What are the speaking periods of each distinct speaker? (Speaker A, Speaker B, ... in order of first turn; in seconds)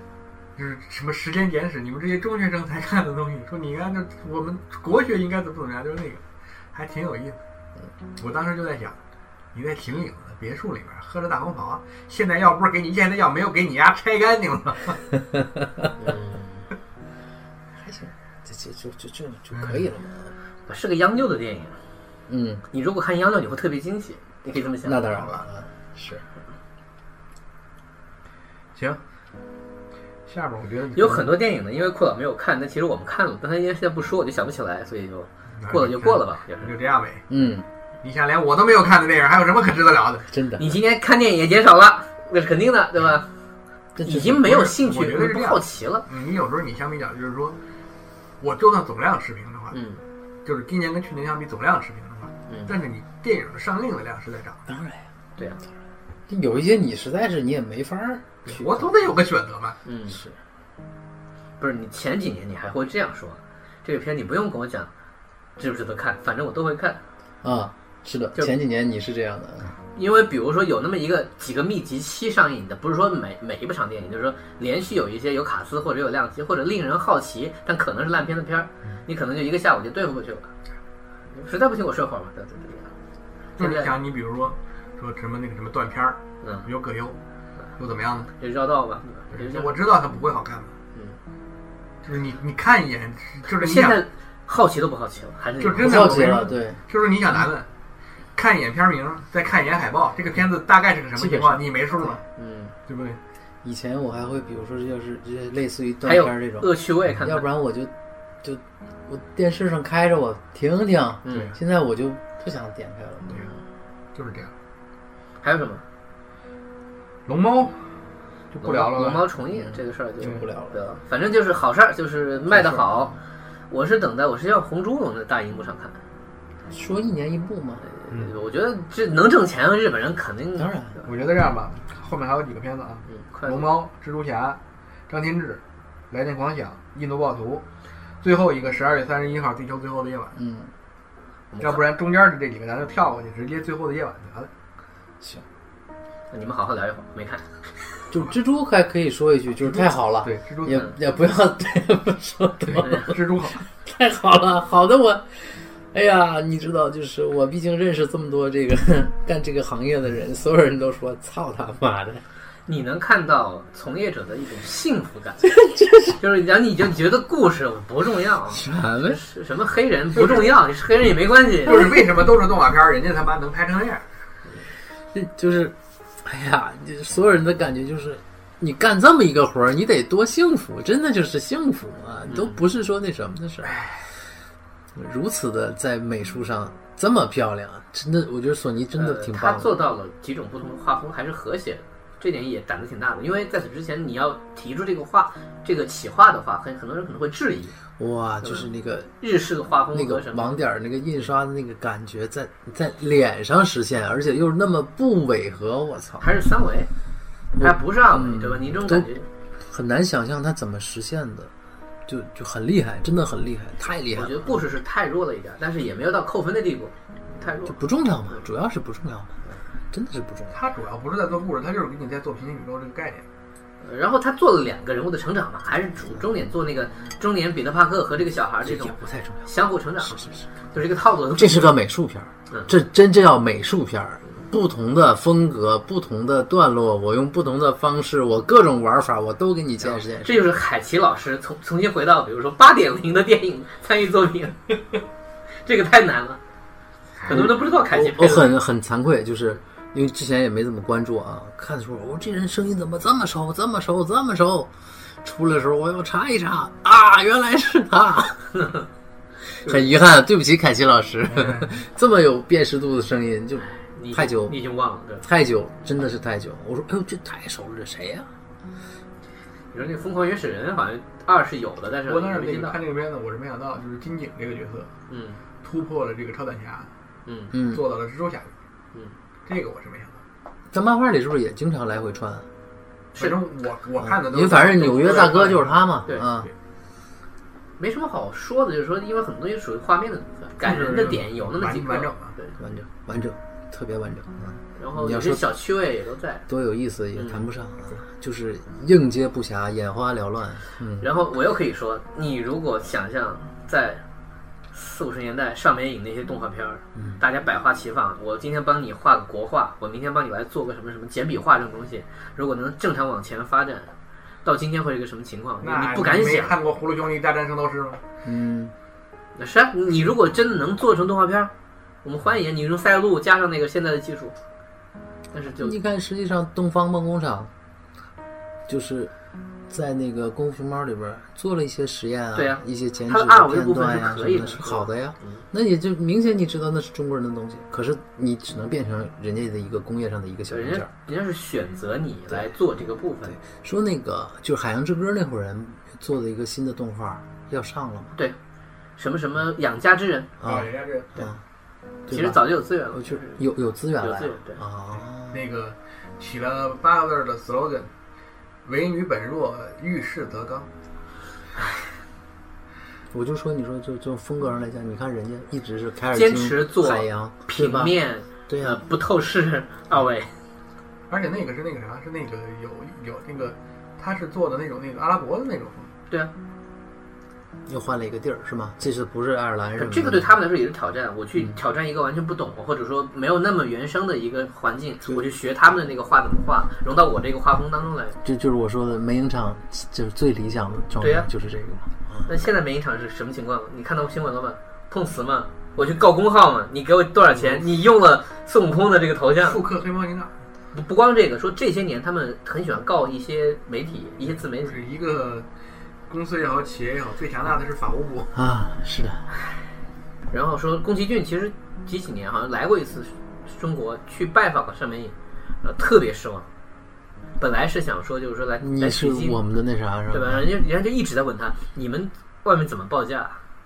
Speaker A: 0.6-6.2, 6.7-7.4, 8.2-9.0, 9.5-15.0, 19.5-19.8, 25.1-25.4, 30.3-31.3, 35.6-37.2, 38.0-40.3, 44.4-47.5, 48.4-49.8, 50.4-54.6, 58.4-59.8, 83.6-87.2, 87.8-88.3, 89.3-90.8, 92.0-94.0, 95.6-97.7, 98.3-102.2, 102.9-103.2, 111.3-111.6, 114.1-114.5, 117.3-117.9, 118.5-119.3, 131.0-137.6, 138.2-140.4, 141.6-144.5, 149.6-150.9, 152.7-153.6, 170.1-170.6, 171.6-174.0, 220.5-223.2, 261.3-261.7, 272.1-274.9, 275.6-276.9, 277.6-278.5, 279.4-280.2, 283.2-286.5, 290.6-292.3, 315.6-318.0, 350.4-351.1, 355.2-357.9, 358.6-360.7, 371.1-375.9, 397.3-397.8, 399.4-400.3, 404.5-405.5, 406.1-408.3
Speaker B: 16.0-16.7, 20.7-21.8, 22.7-25.1, 30.9-36.7, 40.6-43.3, 44.0-46.0, 49.7-50.0, 59.8-60.2, 61.6-64.9, 65.6-67.0, 69.9-80.5, 81.3-82.9, 83.6-83.9, 86.4-86.7, 88.4-89.7, 93.5-96.2, 102.3-102.7, 106.0-107.4, 111.2-111.5, 115.4-115.8, 118.6-123.1, 123.7-126.0, 127.8-131.0, 133.1-133.7, 141.5-141.8, 146.3-147.5, 162.7-165.5, 166.2-171.8, 182.3-182.6, 188.9-197.7, 199.2-200.5, 206.2-206.9, 207.6-209.3, 214.1-217.8, 223.8-231.7, 240.2-244.7, 245.7-246.4, 247.3-248.5, 263.9-265.2, 269.7-272.8, 275.1-275.4, 277.2-277.5, 287.8-292.5, 294.8-296.4, 297.1-297.4, 301.0-304.0, 304.7-313.9, 314.4-316.5, 319.4-321.5, 322.0-324.3, 325.3-325.8, 332.3-335.4, 340.5-343.3, 349.0-350.4, 352.1-353.4, 354.0-354.6, 366.1-370.3, 379.8-388.2, 391.0-391.3, 392.2-399.6, 400.7-404.8, 410.3-416.5, 417.4-419.4, 420.1-423.4
Speaker C: 17.8-20.3, 22.3-22.6, 24.8-26.2, 37.3-37.6, 40.3-40.8, 44.0-44.5, 54.7-55.1, 56.3-58.9, 60.1-60.3, 67.4-69.7, 95.8-96.8, 101.1-102.2, 103.6-113.5, 119.5-120.8, 122.5-123.2, 126.7-127.8, 130.6-130.9, 140.3-140.7, 148.1-153.2, 153.8-162.2, 165.6-166.1, 168.5-169.2, 175.1-183.8, 184.9-189.8, 198.0-199.1, 199.9-206.3, 207.6-209.1, 209.6-211.5, 212.1-214.6, 217.6-219.4, 219.9-220.6, 228.6-229.5, 230.0-230.4, 231.3-240.5, 247.3-258.5, 259.6-264.6, 265.2-268.3, 277.5-277.8, 280.7-282.5, 284.0-286.5, 292.6-295.5, 296.5-301.1, 306.9-307.2, 318.2-318.7, 325.6-327.5, 328.7-329.1, 329.7-340.9, 342.3-342.5, 343.2-348.1, 350.4-351.4, 352.1-355.4, 363.1-367.9, 368.5-368.8, 377.6-380.3, 388.2-392.3, 408.3-409.3, 418.6-420.5